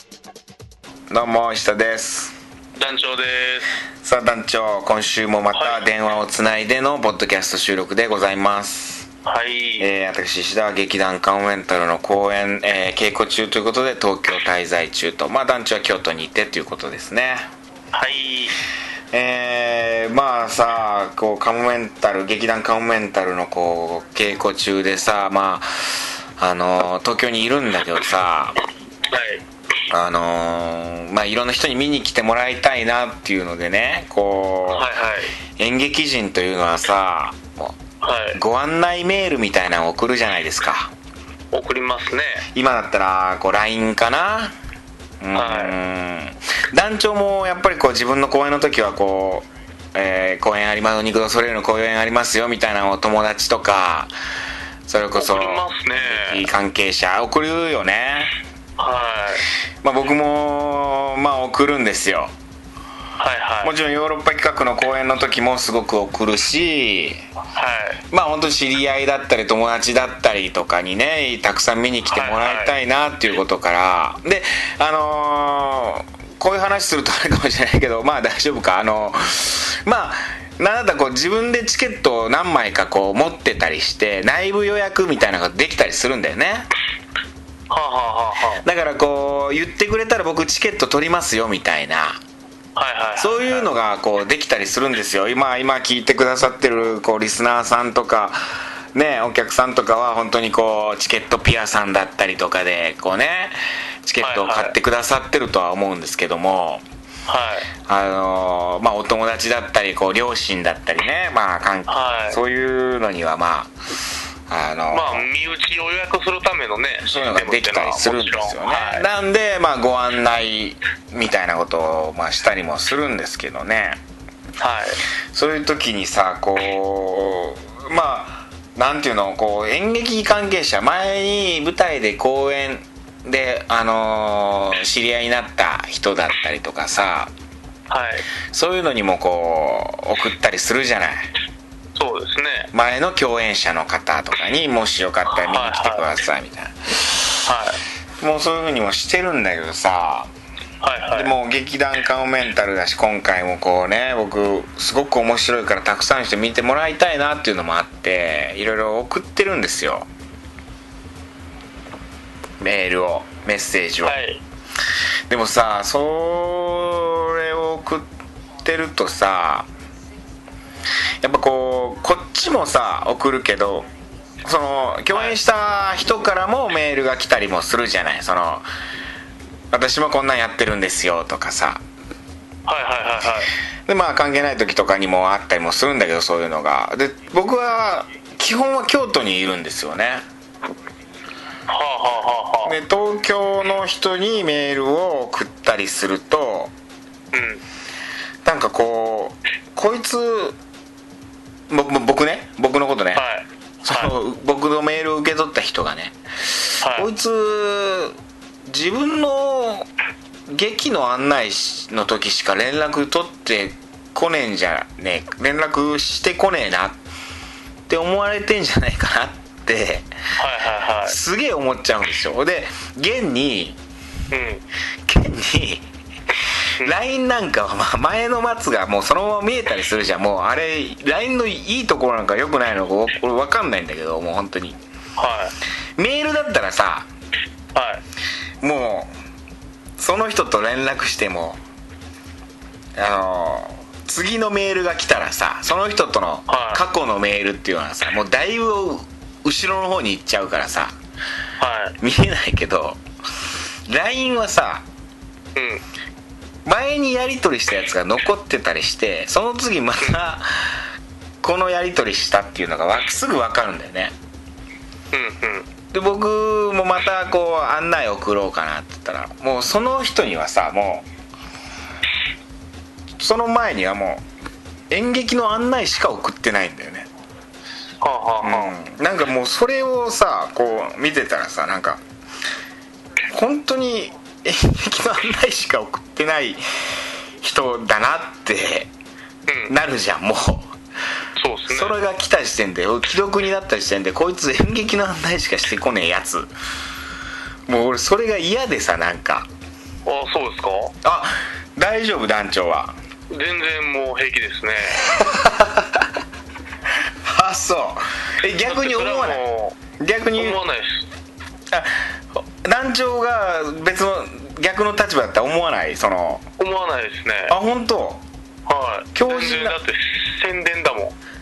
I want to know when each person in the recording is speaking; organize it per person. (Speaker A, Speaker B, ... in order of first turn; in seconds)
Speaker A: 1.1-2.3, 4.0-9.1, 9.8-17.5, 19.1-28.6, 29.9-34.9, 35.6-37.8, 38.3-40.9, 42.5-44.5, 45.2-54.1, 54.9-58.4, 59.8-62.3, 63.6-67.2, 68.1-86.7, 88.6-92.2, 93.2-106.8, 107.9-113.7, 114.5-115.3, 117.0-124.0, 125.3-137.3, 138.5-141.3, 142.7-147.4, 148.2-150.3, 151.1-160.1, 162.6-164.2, 165.3-168.1, 168.6-169.7, 171.2-173.9, 174.4-178.7, 179.7-181.8, 183.9-190.2, 192.6-196.7, 198.4-200.6, 201.7-203.2, 203.8-208.2, 208.7-209.9, 210.5-217.0, 217.9-220.1, 221.0-223.8, 225.1-225.8, 226.8-234.8, 236.0-237.1, 238.6-239.1, 240.0-241.6, 242.9-250.9, 252.0-253.0, 253.9-254.8, 256.6-260.8, 261.4-264.1, 265.9-271.1, 273.2-274.2, 274.9-277.1, 278.4-282.0, 283.3-286.6, 287.4-288.9, 289.7-290.7, 291.7-296.5, 297.7-299.5, 301.0-302.9, 305.0-306.1, 307.2-309.4, 310.0-310.6, 311.7-316.5, 317.5-318.2, 319.1-319.8
Speaker B: 2.8-3.7, 5.5-5.8, 9.2-9.9, 17.9-18.5, 29.1-29.4, 34.7-35.3, 38.0-38.4, 41.5-42.4, 45.3-45.8, 55.1-56.5, 58.8-59.4, 63.2-63.7, 67.5-68.0, 72.0-72.7, 87.7-88.6, 92.7-93.7, 104.2-104.8, 107.2-107.7, 111.9-112.4, 114.9-119.1, 124.6-125.0, 137.9-138.2, 141.9-142.7, 145.2-146.2, 147.4-147.8, 150.8-151.3, 164.0-164.4, 175.1-175.4, 182.7-183.5, 191.7-192.8, 197.3-197.6, 203.1-204.1, 206.8-207.1, 220.4-221.2, 224.3-224.6, 235.2-235.5, 237.7-238.0, 246.5-246.8, 251.6-251.9, 255.5-255.8, 265.1-265.7, 278.0-278.7, 289.5-289.7, 291.4-291.9, 300.0-300.9, 303.3-305.1, 308.6-309.8, 310.4-311.1, 316.6-317.6, 318.6-321.1